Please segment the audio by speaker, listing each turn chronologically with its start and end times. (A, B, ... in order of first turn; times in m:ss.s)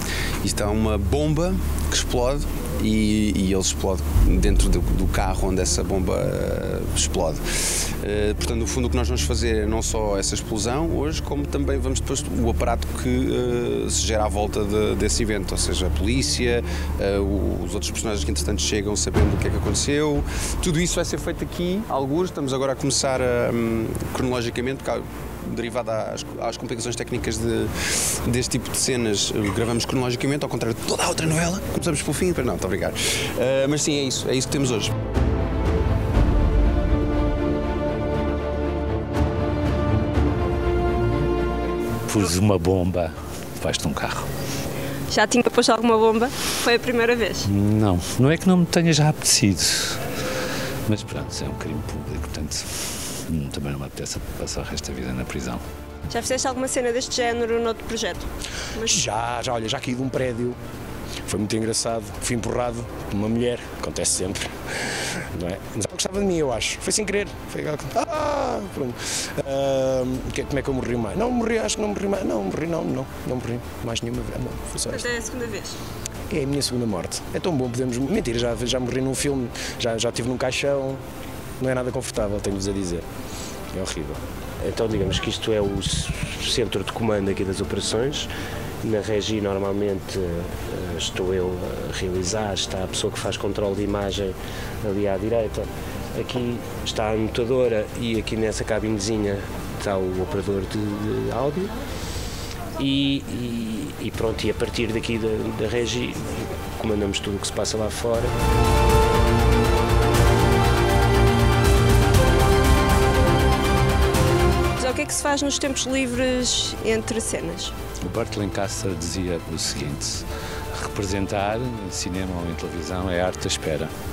0:00.4-0:34.9 A
0:42.0-0:44.3 B
0:45.1-0:47.5 C
0:47.5-0:50.0 B
0:50.8-0:52.7 B
0:53.3-0:55.6 B
0:56.1-0:58.2 C
0:58.8-0:59.0 C
0:58.9-1:00.6 D
1:01.3-1:15.0 D
1:14.9-1:15.7 C
1:16.3-1:21.0 D
1:21.6-1:23.0 D
1:23.7-1:24.2 D
1:24.6-1:28.3 E
1:28.8-1:41.7 E
1:42.8-1:48.3 E
1:54.8-1:57.7 C
1:58.0-2:03.9 B